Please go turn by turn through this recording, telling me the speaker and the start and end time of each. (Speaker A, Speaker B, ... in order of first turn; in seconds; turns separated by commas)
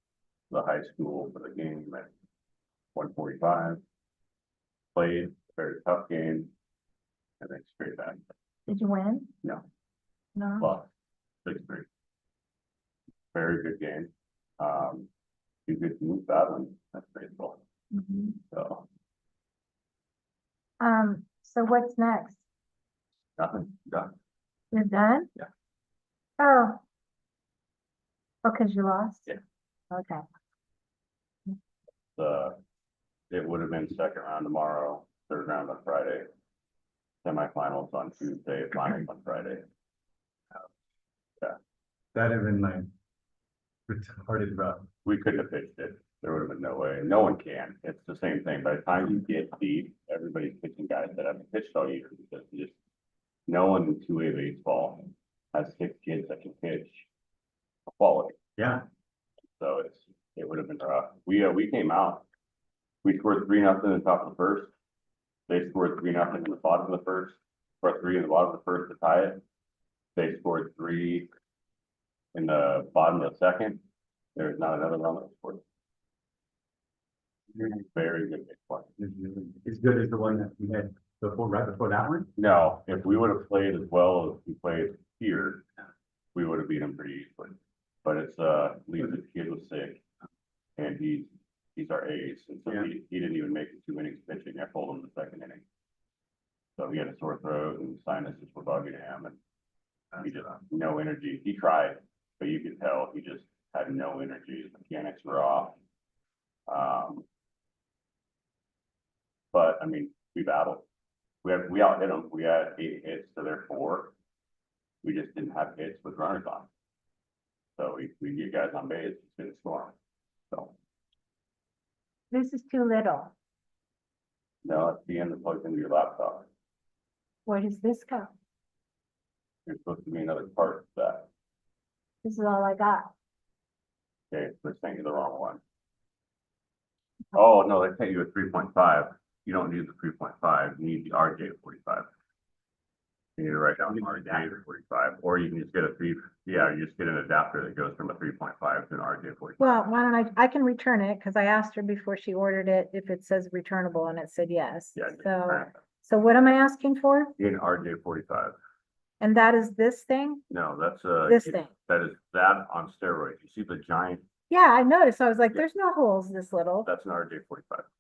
Speaker A: 0.5-2.1, Speaker A: 2.9-3.8, Speaker A: 4.9-6.5, Speaker A: 7.4-8.3, Speaker B: 8.7-9.3, Speaker B: 10.3-10.7, Speaker A: 10.6-10.9, Speaker A: 11.4-11.9, Speaker A: 13.3-15.1, Speaker A: 15.7-17.6, Speaker B: 17.9-18.4, Speaker A: 18.5-18.8, Speaker B: 20.8-22.4, Speaker A: 23.4-24.1, Speaker B: 24.7-25.3, Speaker B: 26.4-26.8, Speaker B: 28.4-29.3, Speaker B: 29.9-30.2, Speaker A: 32.1-32.6, Speaker A: 33.3-36.3, Speaker A: 37.2-39.6, Speaker C: 42.1-42.9, Speaker C: 43.9-44.9, Speaker A: 45.0-52.7, Speaker A: 53.5-57.1, Speaker A: 58.0-58.4, Speaker C: 58.6-58.8, Speaker A: 59.6-62.2, Speaker A: 63.0-64.7, Speaker A: 65.5-69.4, Speaker A: 70.2-71.3, Speaker A: 72.3-73.8, Speaker A: 74.3-75.6, Speaker A: 77.6-78.9, Speaker C: 79.0-82.3, Speaker A: 82.3-85.7, Speaker A: 86.3-90.0, Speaker A: 90.8-95.6, Speaker A: 96.8-99.4, Speaker A: 100.2-105.8, Speaker A: 106.7-107.2, Speaker A: 109.5-110.8, Speaker A: 111.4-114.1, Speaker A: 115.0-116.7, Speaker A: 117.8-119.9, Speaker B: 122.3-123.3, Speaker A: 124.6-126.5, Speaker B: 127.5-128.3, Speaker A: 129.7-131.3, Speaker B: 132.2-133.1, Speaker A: 134.3-135.6, Speaker A: 137.3-142.1, Speaker A: 143.4-149.8, Speaker B: 149.6-157.3, Speaker A: 154.9-155.8, Speaker A: 157.4-158.5, Speaker B: 159.2-160.4, Speaker A: 160.5-164.2, Speaker B: 161.2-161.7, Speaker B: 164.5-166.9, Speaker A: 166.8-167.9